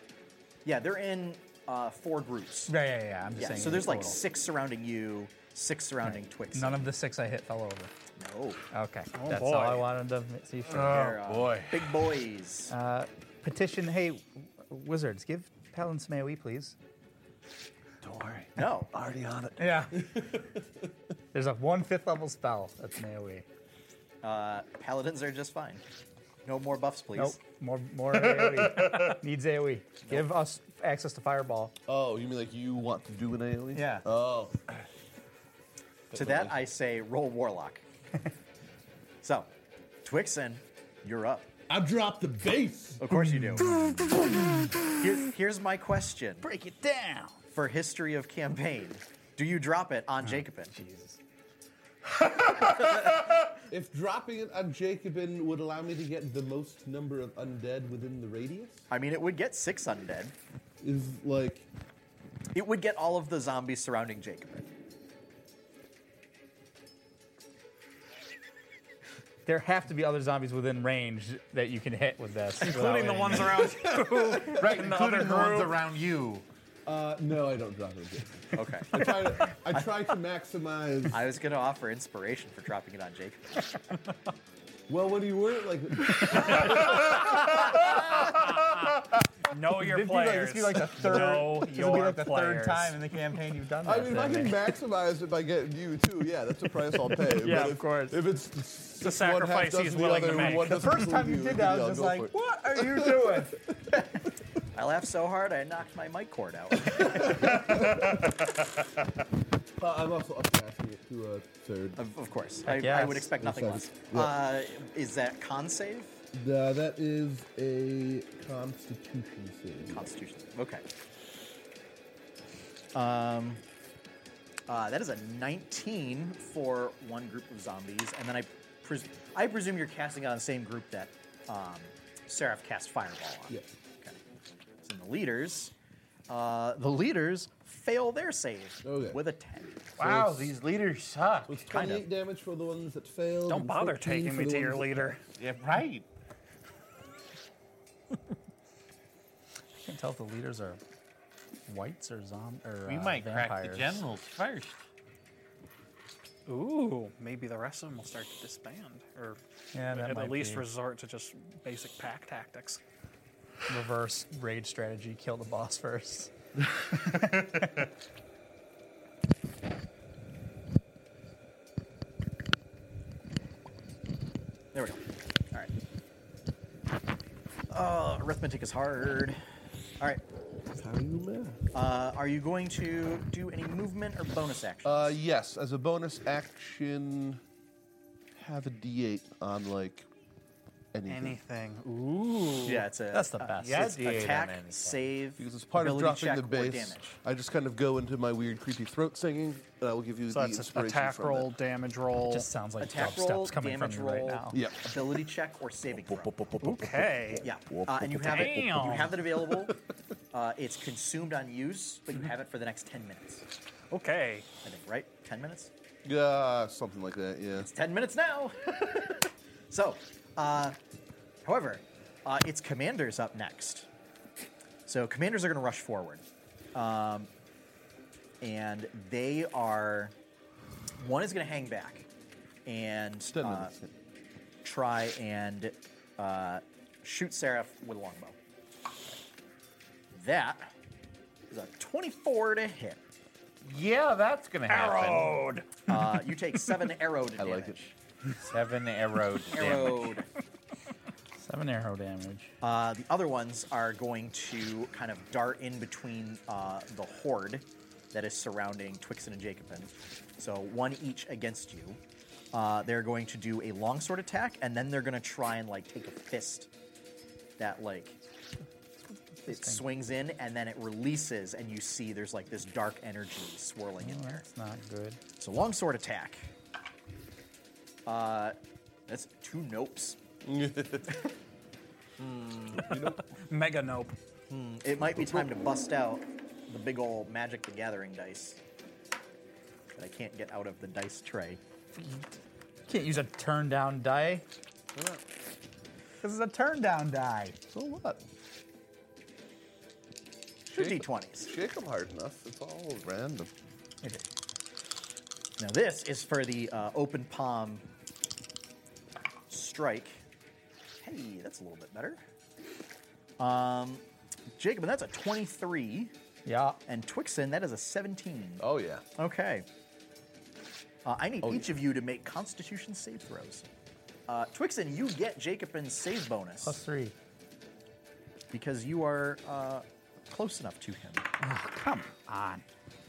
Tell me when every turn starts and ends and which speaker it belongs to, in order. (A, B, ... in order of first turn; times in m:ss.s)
0:00.6-0:02.8 A
0:02.7-0:04.2 B
0:03.4-0:06.9 A
0:06.0-0:07.9 B
0:08.2-0:08.6 A
0:08.7-0:11.1 B
0:09.2-0:09.9 C
0:10.6-0:12.0 D
0:10.7-0:12.7 A
0:12.7-0:16.8 B
0:18.0-0:18.5 D
0:18.6-0:18.9 A
0:19.0-0:20.6 E
0:19.6-0:20.1 B
0:21.3-0:23.5 B
0:24.2-0:25.8 A
0:26.4-0:27.4 A
0:27.2-0:31.8 B
0:28.2-0:29.2 D
0:31.9-0:34.9 E
0:33.7-0:34.1 B
0:36.1-0:36.6 E
0:36.1-0:37.8 A
0:39.2-0:39.5 A
0:40.0-0:41.5 A
0:41.7-0:43.1 E
0:43.0-0:43.7 A
0:43.2-0:45.3 B
0:45.0-0:46.5 A
0:46.4-0:47.4 B
0:47.5-0:50.8 A
0:50.2-0:51.2 B
0:53.7-0:58.8 E
0:58.9-1:00.3 A
1:00.8-1:01.7 E
1:02.5-1:04.6 A
1:09.5-1:13.8 B
1:12.6-1:15.8 C
1:13.9-1:14.3 E
1:14.4-1:16.5 D
1:16.9-1:21.2 E
1:18.5-1:19.9 A
1:21.1-1:23.7 A
1:24.9-1:27.6 E
1:29.5-1:33.0 C
1:29.8-1:34.7 B
1:33.8-1:43.8 E
1:37.1-1:38.2 B
1:39.0-1:40.8 C
1:40.2-1:44.2 B
1:44.7-1:47.6 A
1:46.8-1:48.2 E
1:49.8-1:52.0 E
1:52.0-1:56.1 A
1:52.7-1:53.3 B
1:53.3-1:54.4 E
1:56.3-2:00.1 E
1:59.9-2:00.8 A
2:02.9-2:03.6 A
2:04.7-2:14.2 A
2:14.8-2:15.7 A
2:16.3-2:19.8 A
2:18.8-2:19.2 E
2:20.0-2:21.6 D
2:20.0-2:20.6 E
2:21.5-2:25.2 E
2:21.7-2:22.1 A
2:23.5-2:25.2 C
2:25.4-2:26.1 D
2:29.8-2:30.8 B
2:31.7-2:34.0 B
2:32.9-2:34.8 D
2:36.5-2:42.8 C
2:39.7-2:40.7 B
2:43.7-2:47.9 B
2:54.7-2:55.7 A
2:57.7-2:59.4 A
3:00.7-3:01.6 E
3:01.7-3:05.2 A
3:04.8-3:07.4 E
3:08.4-3:10.1 E
3:10.9-3:11.4 E
3:11.1-3:12.9 C
3:12.6-3:17.2 A
3:13.1-3:13.9 B
3:13.6-3:15.0 D
3:15.4-3:21.5 E
3:20.3-3:22.5 C
3:22.3-3:24.6 B
3:22.8-3:26.4 A
3:24.5-3:25.2 E
3:26.0-3:29.8 E
3:26.6-3:27.5 C
3:27.4-3:29.8 A
3:28.2-3:29.2 C
3:30.3-3:33.4 A
3:33.9-3:34.5 C
3:34.6-3:35.7 A
3:36.0-3:37.7 E
3:37.6-3:40.8 A
3:41.4-3:43.9 A
3:44.9-3:46.2 A
3:46.8-3:47.3 A
3:48.4-3:50.2 A
3:51.0-3:52.1 A
3:52.7-3:53.7 A
3:53.3-3:53.9 E
3:54.6-3:58.4 A
4:00.1-4:00.7 A
4:01.5-4:03.0 A
4:03.6-4:05.4 D
4:04.7-4:05.6 C
4:05.9-4:08.0 A
4:07.4-4:07.8 E
4:08.4-4:10.2 D
4:09.5-4:10.3 A
4:11.4-4:12.5 B
4:12.6-4:22.0 A
4:22.5-4:26.7 A
4:27.6-4:28.2 A
4:29.1-4:29.8 B
4:29.5-4:34.5 A
4:34.0-4:35.2 B
4:35.4-4:36.5 A
4:38.1-4:38.6 A
4:39.1-4:40.2 A
4:40.4-4:41.2 E
4:42.2-4:43.0 A
4:42.7-4:43.3 E
4:43.0-4:44.2 C
4:44.5-4:48.6 A
4:45.2-4:45.5 E
4:50.0-4:51.6 A
4:52.0-4:52.3 B
4:52.9-4:54.5 B
4:54.9-4:55.2 E
4:56.2-4:57.6 B
4:57.7-4:58.2 E
5:00.7-5:01.5 A
5:00.7-5:03.5 E
5:05.6-5:07.9 A
5:09.5-5:10.2 A
5:11.0-5:12.2 A
5:13.4-5:16.1 A
5:16.4-5:16.8 B
5:16.9-5:18.6 A
5:18.6-5:19.0 E
5:19.2-5:19.7 A
5:21.0-5:23.7 A
5:21.4-5:21.7 E
5:24.3-5:26.8 A
5:26.6-5:27.2 B
5:28.5-5:31.3 A
5:31.4-5:32.6 B